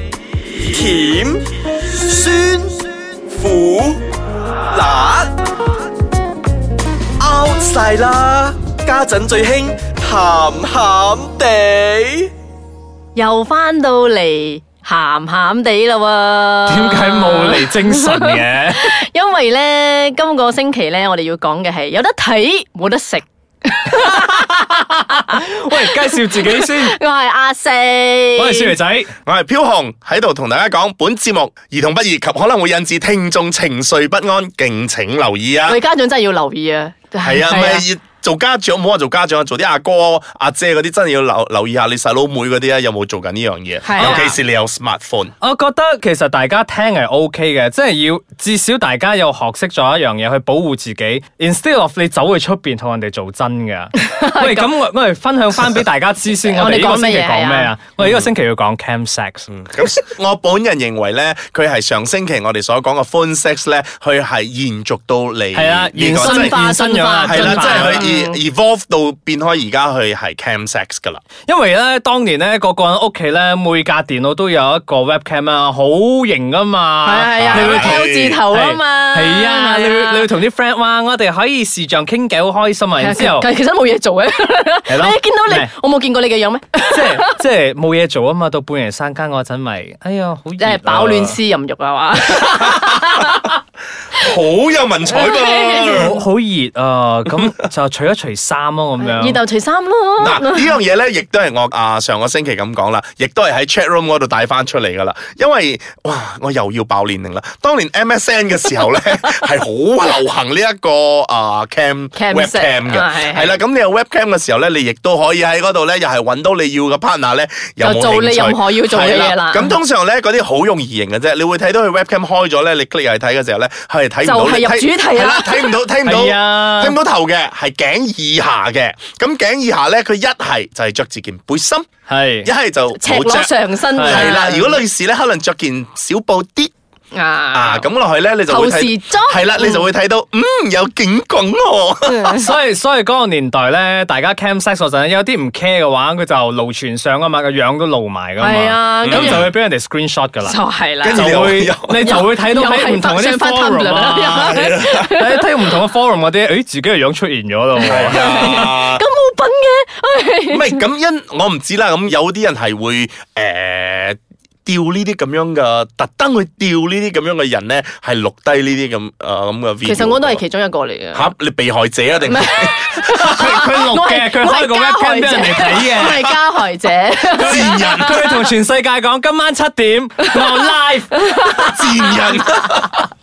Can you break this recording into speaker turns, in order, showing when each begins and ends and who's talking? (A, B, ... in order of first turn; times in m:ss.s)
0:00.6-0:04.0 A
0:04.7-0:05.3 A
0:07.2-0:12.3 A
0:13.1-0:24.6 B
0:16.7-0:18.9 C
0:23.9-0:27.0 C
0:25.3-0:28.7 B
0:28.4-0:29.1 C
0:29.2-0:35.8 D
0:35.7-0:37.8 B
0:37.2-0:45.3 D
0:43.8-0:44.3 B
0:44.0-0:44.3 C
0:45.4-0:59.5 C
0:54.0-0:54.7 B
0:56.5-0:57.7 B
0:58.0-0:58.3 D
0:59.5-1:06.6 D
1:05.5-1:08.0 C
1:06.2-1:08.4 B
1:07.2-1:11.2 D
1:11.5-1:23.5 C
1:17.0-1:20.3 B
1:17.4-1:18.4 D
1:23.0-1:27.3 B
1:24.9-1:25.7 C
1:26.9-1:31.4 C
1:30.6-1:33.5 B
1:34.1-1:36.2 D
1:35.1-1:36.1 B
1:35.7-1:39.4 C
1:39.0-1:40.8 B
1:40.2-2:11.8 D
1:52.2-1:53.6 B
1:57.8-1:59.7 B
2:04.2-2:05.7 B
2:06.0-2:07.0 C
2:12.1-2:12.5 C
2:12.4-2:16.7 D
2:12.9-2:14.8 B
2:13.9-2:14.3 C
2:17.1-2:17.8 B
2:17.5-2:22.3 D
2:18.5-2:19.9 B
2:22.0-2:22.5 B
2:22.4-2:30.6 C
2:28.4-2:29.5 B
2:29.0-2:29.5 D
2:30.4-2:31.3 B
2:31.0-2:32.2 D
2:31.1-2:38.6 C
2:32.0-2:35.4 B
2:34.4-2:35.0 D
2:37.8-2:40.8 B
2:37.8-2:39.0 D
2:40.5-2:50.4 D
2:49.8-2:51.3 B
2:51.1-2:53.8 D
2:52.3-2:58.4 B
2:53.1-2:56.2 C
2:55.8-2:56.4 D
2:57.2-2:58.2 D
2:57.7-3:01.8 C
3:01.2-3:02.3 B
3:01.6-3:03.1 D